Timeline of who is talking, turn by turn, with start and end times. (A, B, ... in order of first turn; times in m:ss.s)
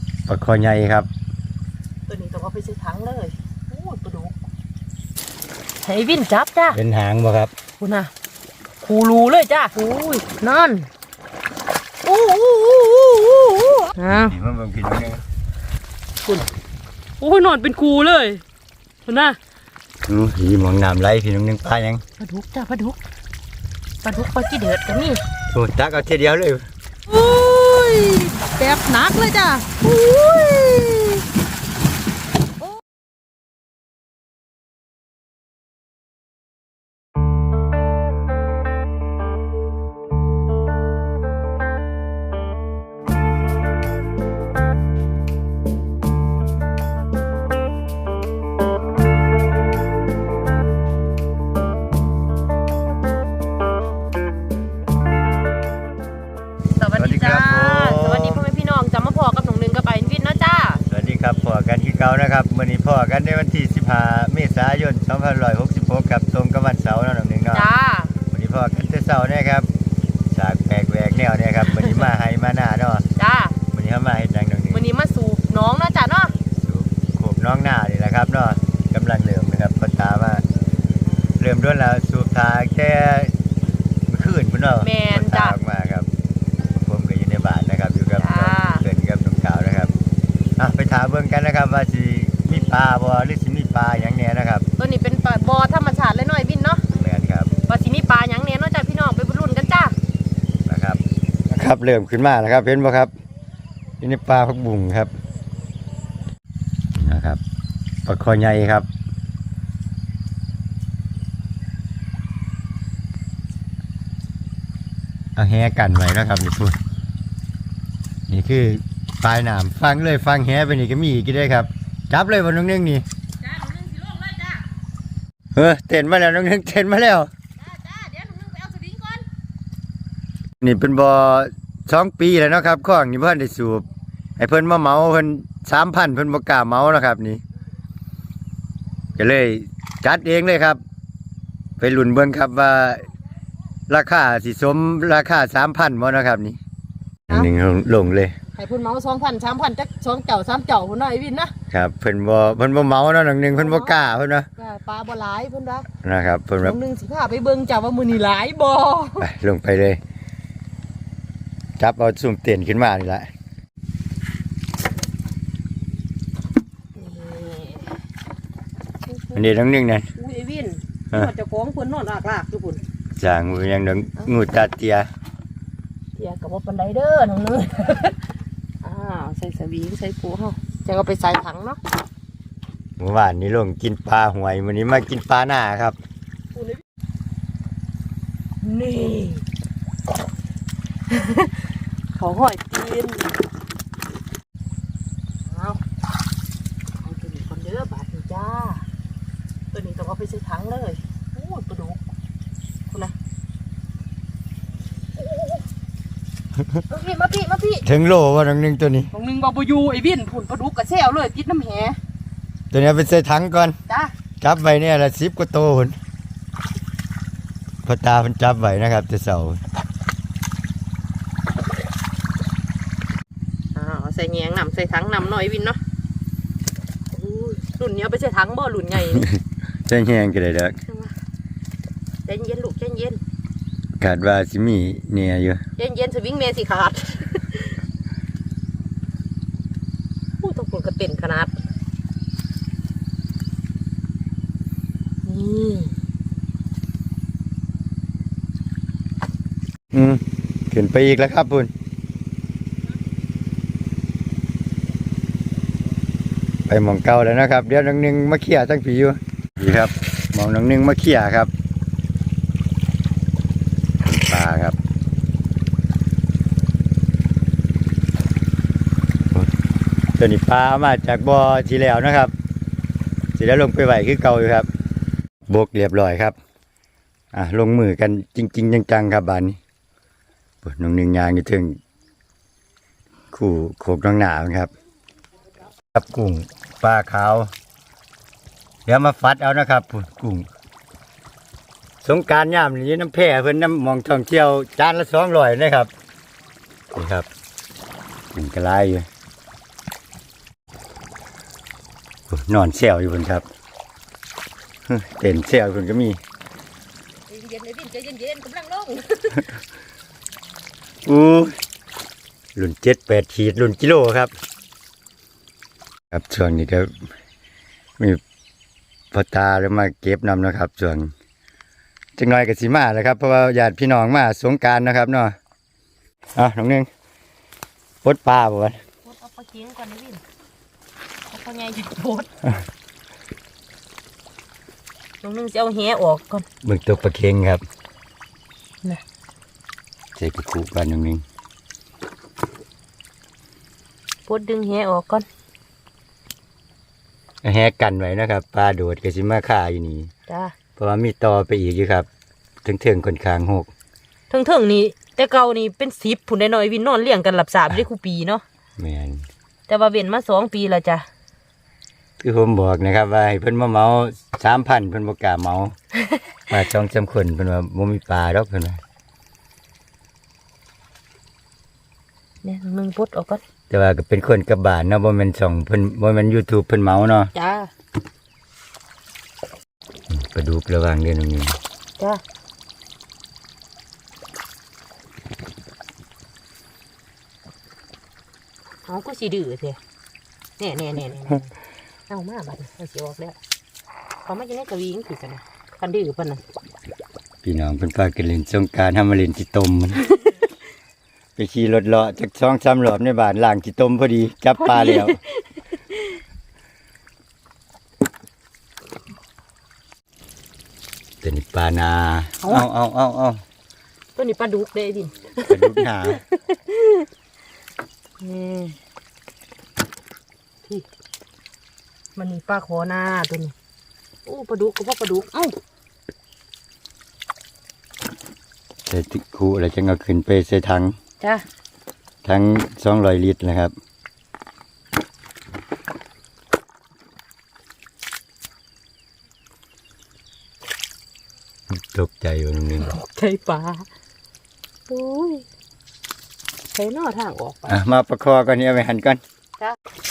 0:00.3-0:01.1 A
0:02.1-0:04.4 B
0:05.8-0:06.8 B
0:06.7-0:07.5 A
0:07.8-0:08.1 B
0:08.8-0:10.9 B
0:12.0-0:14.3 B
0:14.1-0:15.2 A
0:17.2-0:18.4 B
0:19.0-0:19.4 B
0:20.1-0:22.0 A
0:22.2-0:23.0 B
0:24.0-0:25.2 B
0:25.5-0:26.7 A
0:27.1-0:31.2 B
0:56.7-1:00.8 B
0:57.0-0:58.4 A
1:00.9-1:07.7 A
1:07.5-1:08.1 B
1:08.2-1:09.7 A
1:10.3-1:13.0 A
1:13.2-1:13.6 B
1:13.7-1:14.8 A
1:14.7-1:16.3 B
1:16.5-1:20.4 A
1:21.4-1:23.3 A
1:24.1-1:26.1 A
1:24.8-1:25.6 B
1:26.8-1:29.9 A
1:28.2-1:28.8 B
1:30.6-1:34.7 A
1:34.8-1:36.8 B
1:36.9-1:37.5 A
1:37.7-1:39.9 B
1:40.6-1:43.1 A
1:44.0-1:45.1 A
1:46.9-1:47.4 A
1:48.0-1:48.9 A
1:55.4-1:56.8 A
1:58.3-2:03.0 A
2:03.5-2:04.4 B
2:05.5-2:07.3 A
2:07.6-2:09.2 B
2:10.6-2:13.8 A
2:14.4-2:17.4 A
2:19.2-2:20.8 A
2:21.8-2:23.0 A
2:23.9-2:26.6 A
2:27.3-2:28.4 A
2:28.5-2:31.5 B
2:31.7-2:34.5 A
2:33.5-2:33.9 B
2:34.6-2:35.9 B
2:36.0-2:36.8 A
2:36.6-2:39.3 B
2:39.2-2:40.0 A
2:41.8-2:43.3 A
2:46.9-2:48.0 B
2:49.1-2:49.4 B
2:49.3-2:50.1 A
2:50.2-2:52.8 B
2:53.2-2:55.1 A
2:56.2-2:58.2 B
2:58.8-3:01.8 B
3:03.0-3:06.0 A
3:06.5-3:06.8 B
3:08.6-3:09.4 B
3:11.1-3:13.3 B
3:15.4-3:15.8 B
3:17.0-3:18.8 B
3:19.7-3:22.0 B
3:22.9-3:23.1 B
3:25.2-3:25.6 B
3:26.9-3:27.8 B
3:27.8-3:29.1 A
3:29.1-3:32.0 B
3:32.7-3:33.8 A
3:33.9-3:34.1 B
3:34.4-3:36.0 A
3:37.8-3:39.6 A
3:43.7-3:45.8 B
3:47.1-3:49.3 B
3:49.1-3:50.8 A
3:50.9-3:51.1 B
3:52.2-3:53.2 B
3:54.0-3:55.6 A
3:55.8-3:57.8 B
4:00.4-4:01.5 B
4:05.2-4:05.9 B
4:09.9-4:11.7 A
4:16.7-4:21.5 A
4:24.0-4:24.8 A
4:30.2-4:32.3 A
4:33.4-4:34.7 A
4:35.5-4:36.4 A
4:37.3-4:39.6 A
4:40.6-4:41.8 A
4:43.3-4:44.7 A
4:45.9-4:47.5 A
4:48.8-4:50.5 A
4:52.0-4:55.9 A
4:56.9-4:57.3 A
4:58.3-4:59.0 A
5:02.3-5:03.4 A
5:04.9-5:06.2 A
5:07.3-5:09.4 B
5:11.0-5:11.6 A
5:12.6-5:14.3 A
5:16.1-5:16.9 A
5:19.1-5:21.1 A
5:22.2-5:25.3 A
5:26.4-5:26.9 A
5:28.0-5:28.8 A
5:29.0-5:30.2 B
5:31.3-5:32.3 B
5:35.2-5:36.4 B
5:36.6-5:37.6 A
5:40.2-5:41.2 A
5:44.3-5:45.2 B
5:47.4-5:50.1 A
5:50.3-5:50.5 B
5:50.8-5:52.1 A
5:52.6-5:53.7 A
5:54.3-5:58.4 B
5:58.8-5:59.2 A
5:59.7-6:01.0 B
6:02.2-6:05.7 A
6:06.5-6:08.8 A
6:12.4-6:13.4 B
6:13.7-6:17.3 A
6:17.3-6:17.7 B
6:20.1-6:21.6 A
6:28.8-6:29.8 B
6:30.6-6:31.5 B
6:32.1-6:33.4 B
6:34.2-6:36.4 B
6:37.4-6:40.0 A
6:41.4-6:45.2 A
6:44.6-6:46.2 B
6:51.2-6:53.4 A
6:54.2-6:57.1 B
6:55.5-6:56.2 A
6:58.2-6:58.8 B
7:02.2-7:03.5 B
7:04.2-7:05.5 B
7:08.9-7:10.9 A
7:12.2-7:13.7 A
7:21.7-7:22.9 A
7:22.8-7:23.9 B
7:24.9-7:25.4 B
7:26.7-7:27.8 B
7:27.7-7:29.2 A